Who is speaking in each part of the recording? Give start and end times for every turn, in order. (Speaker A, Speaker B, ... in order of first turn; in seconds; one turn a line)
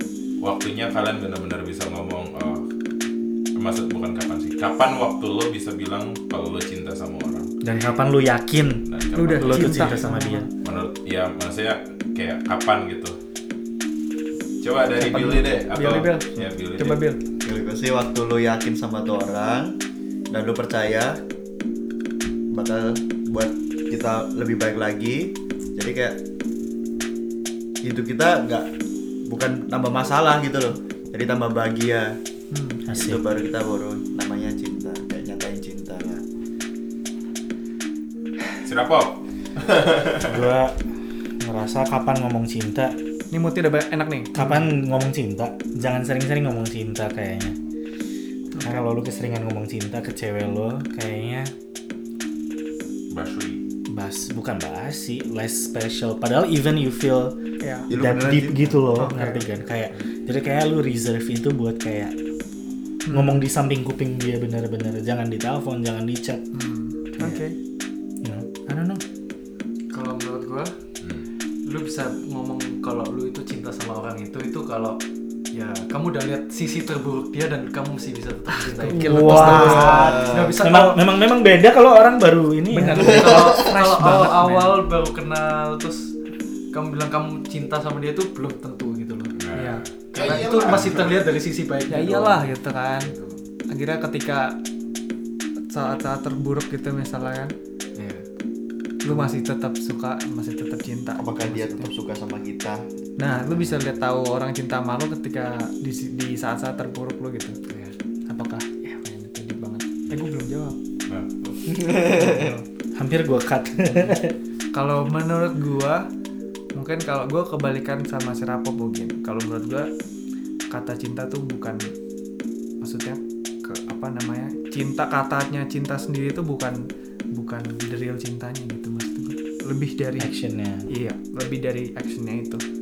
Speaker A: 0.4-2.7
Speaker A: 3.5-7.5
Speaker B: 7.6-8.8
Speaker A: 8.8-10.1
Speaker C: 9.1-10.5
Speaker B: 9.3-10.5
Speaker A: 10.6-13.2
Speaker A: 14.6-17.0
Speaker C: 15.0-17.2
Speaker D: 17.4-19.8
Speaker D: 20.3-21.2
Speaker D: 22.5-26.2
Speaker D: 27.8-28.7
Speaker D: 29.2-32.2
Speaker C: 32.5-32.8
Speaker B: 32.9-33.2
Speaker D: 32.9-36.2
Speaker A: 38.6-40.5
Speaker B: 40.2-40.8
Speaker B: 41.4-43.0
Speaker C: 43.3-44.6
Speaker B: 44.3-47.6
Speaker C: 48.5-48.8
Speaker B: 48.6-51.5
Speaker A: 53.1-53.6
Speaker B: 53.9-57.4
Speaker C: 57.6-57.9
Speaker D: 57.9-59.1
Speaker B: 57.9-62.1
Speaker C: 58.9-59.4
Speaker C: 63.0-63.4
Speaker B: 63.1-66.4
Speaker C: 66.5-67.5
Speaker B: 67.2-67.4
Speaker B: 68.2-69.0
Speaker E: 69.9-70.7
Speaker A: 71.0-71.3
Speaker E: 71.6-75.0
Speaker E: 75.5-81.0
Speaker C: 78.7-80.0
Speaker B: 78.9-83.7
Speaker D: 79.7-80.5
Speaker C: 82.7-84.8
Speaker E: 82.8-86.2
Speaker E: 86.7-89.3
Speaker A: 89.3-91.2
Speaker C: 89.5-89.8
Speaker E: 90.1-93.4
Speaker C: 91.9-93.1
Speaker C: 93.7-94.6
Speaker C: 95.7-97.5
Speaker E: 98.0-98.2
Speaker C: 99.0-101.9
Speaker E: 99.0-99.3
Speaker D: 101.2-102.8
Speaker C: 103.2-107.6
Speaker E: 107.7-108.0
Speaker C: 108.3-110.8
Speaker A: 111.1-111.6
Speaker D: 111.7-112.5
Speaker C: 112.0-112.6
Speaker B: 112.9-114.3
Speaker C: 114.7-116.1
Speaker C: 116.7-119.9
Speaker C: 120.7-121.9
Speaker C: 122.8-130.3
Speaker B: 130.2-130.9
Speaker C: 130.9-132.6